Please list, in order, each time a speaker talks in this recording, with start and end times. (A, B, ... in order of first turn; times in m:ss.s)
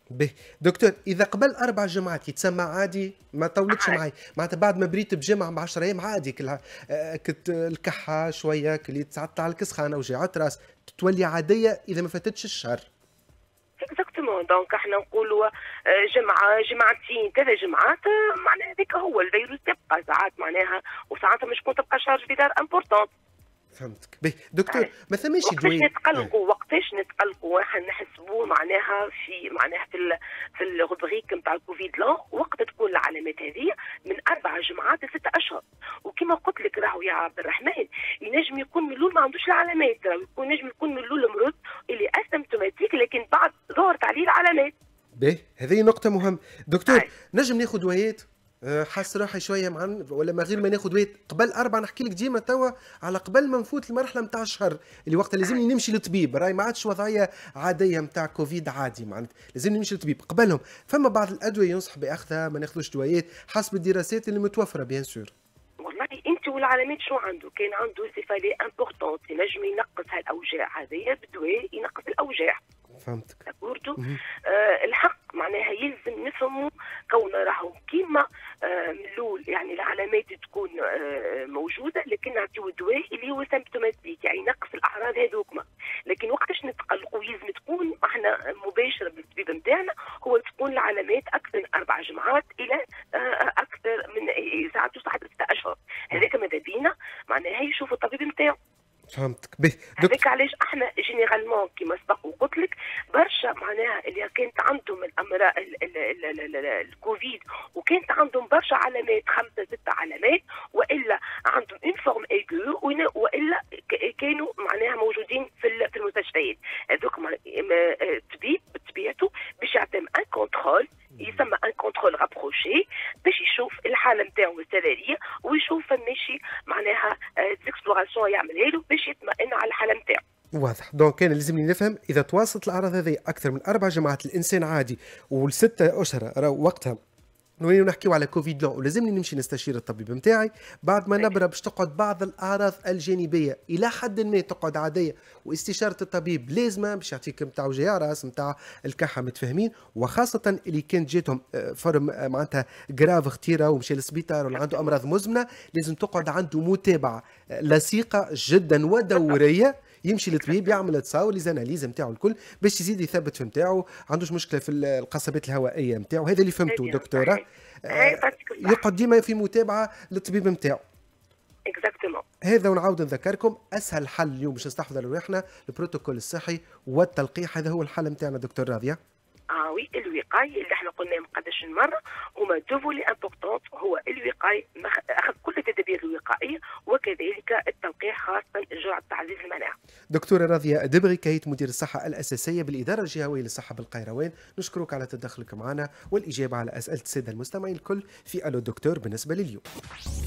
0:00.1-0:12.9 A
0:03.7-0:04.0 B
0:13.8-0:23.1 B
0:23.8-0:26.3 A
0:25.4-0:44.7 B
0:45.2-1:05.3 A
1:05.8-1:12.6 B
1:13.0-1:13.4 A
1:13.5-1:38.6 B
1:39.1-1:40.2 A
1:40.0-2:10.2 B
2:10.6-2:17.0 A
2:17.6-2:50.8 A
2:34.5-2:34.9 B
2:39.1-2:39.4 B
2:40.3-2:40.8 B
2:46.7-2:48.8 B
2:51.7-2:52.2 B
2:52.4-2:59.0 A
2:59.5-3:09.8 B
3:10.1-3:19.6 A